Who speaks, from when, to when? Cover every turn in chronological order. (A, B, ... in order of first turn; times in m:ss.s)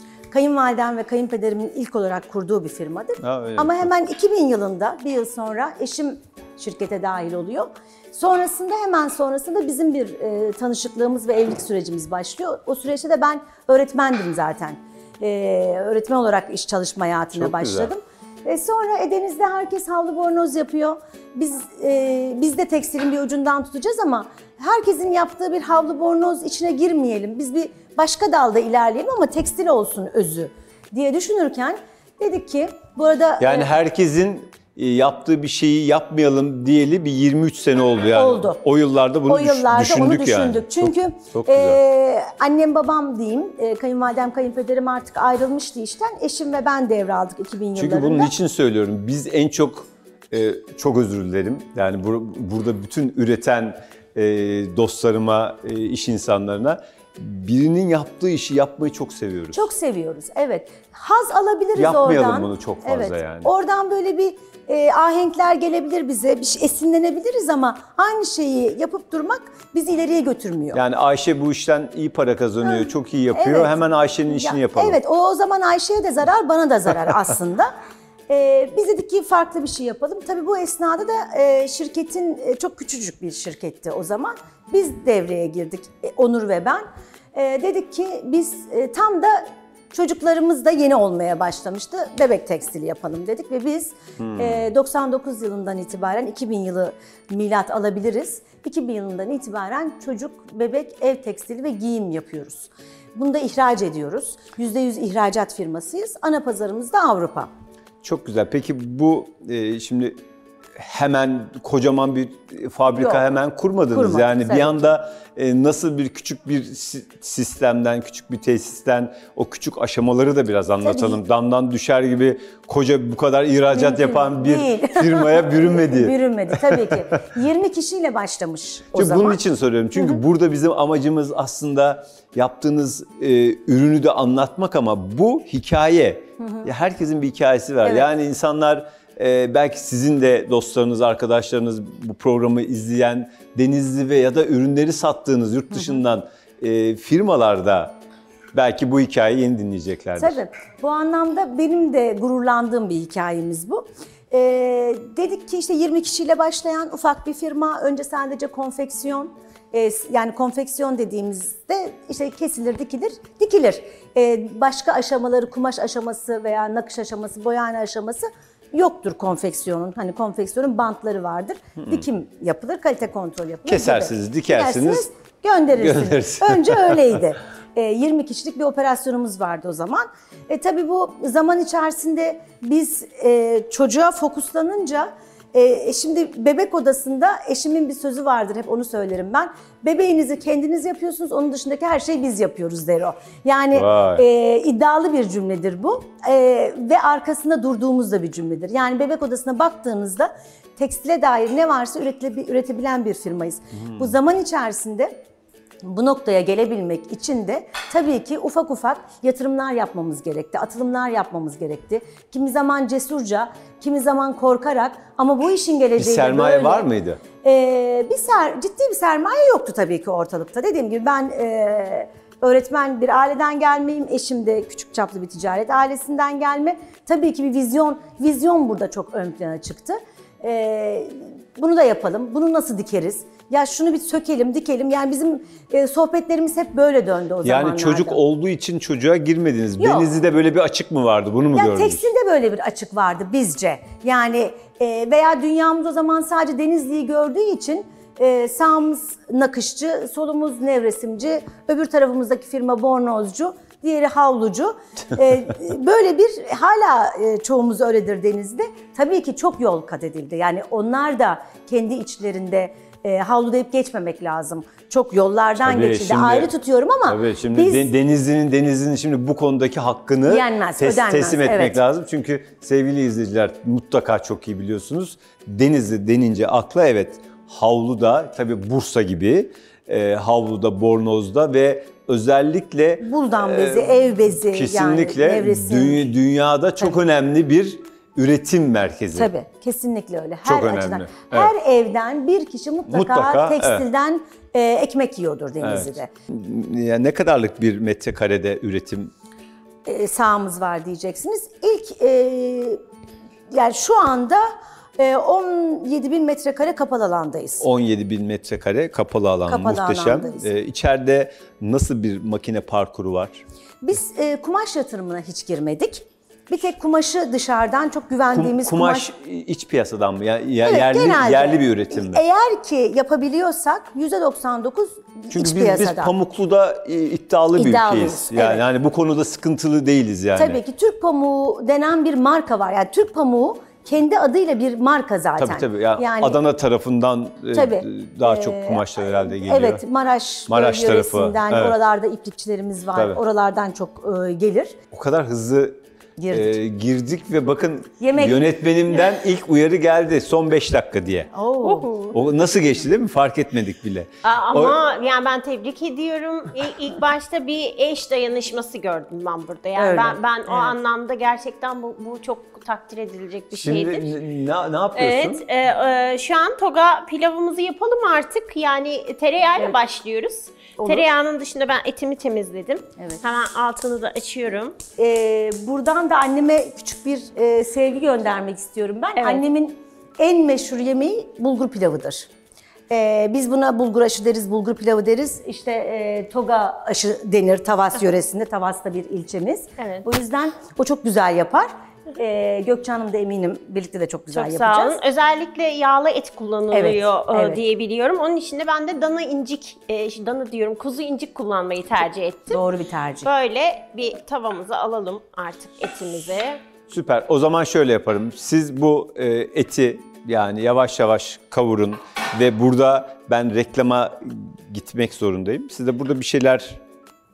0:00.3-0:33.7 A
0:03.2-0:03.9 B
0:17.3-0:17.9 B
0:33.4-0:41.8 B
0:38.2-0:38.6 A
0:39.3-0:48.3 A
0:47.8-0:59.7 B
0:59.5-1:10.8 A
1:01.8-1:03.5 B
1:10.7-1:15.0 B
1:12.6-1:17.7 A
1:18.3-1:47.5 A
1:34.2-1:34.6 B
1:48.0-1:50.2 B
1:50.8-2:07.1 B
1:53.0-1:53.2 A
1:53.9-1:54.8 A
2:00.8-2:01.2 A
2:03.7-2:09.4 A
2:08.9-2:28.0 B
2:16.4-2:16.7 A
2:17.8-2:18.1 A
2:28.5-2:30.4 B
2:30.2-3:25.2 A
2:53.7-2:55.1 B
2:55.8-2:57.2 B
3:13.7-3:14.2 B
3:23.7-3:24.2 B
3:25.8-3:58.2 A
3:36.0-3:37.2 B
3:57.4-4:02.1 B
3:59.8-4:00.1 A
4:01.5-4:27.9 A
4:25.6-4:26.5 B
4:27.0-4:49.3 B
4:30.2-4:31.8 A
4:43.0-4:46.1 A
4:49.1-4:56.1 A
4:50.4-4:51.5 B
4:52.9-4:53.8 B
4:55.6-4:59.1 B
4:59.8-5:02.8 A
5:03.5-5:07.7 A
5:07.6-5:13.4 B
5:09.5-5:10.5 A
5:13.8-5:19.1 A
5:18.3-5:22.2 B
5:20.6-5:26.1 A
5:25.3-5:30.6 B
5:27.6-5:28.6 A
5:30.4-5:36.4 A
5:35.4-5:39.8 B
5:37.5-5:44.8 A
5:40.5-5:41.8 B
5:43.0-5:43.2 B
5:44.9-5:51.3 B
5:46.2-5:46.6 A
5:48.0-5:48.5 A
5:51.3-5:52.1 A
5:51.6-5:52.2 C
5:52.1-5:54.8 B
5:54.2-6:04.2 C
5:59.8-6:00.8 A
6:03.6-6:05.4 B
6:05.0-6:14.8 C
6:10.8-6:11.1 A
6:15.0-6:22.3 A
6:19.2-6:19.4 C
6:22.9-6:35.0 A
6:29.8-6:30.1 C
6:34.3-6:42.6 C
6:36.7-6:37.6 A
6:42.5-6:43.3 A
6:43.2-6:46.6 C
6:46.9-6:56.8 B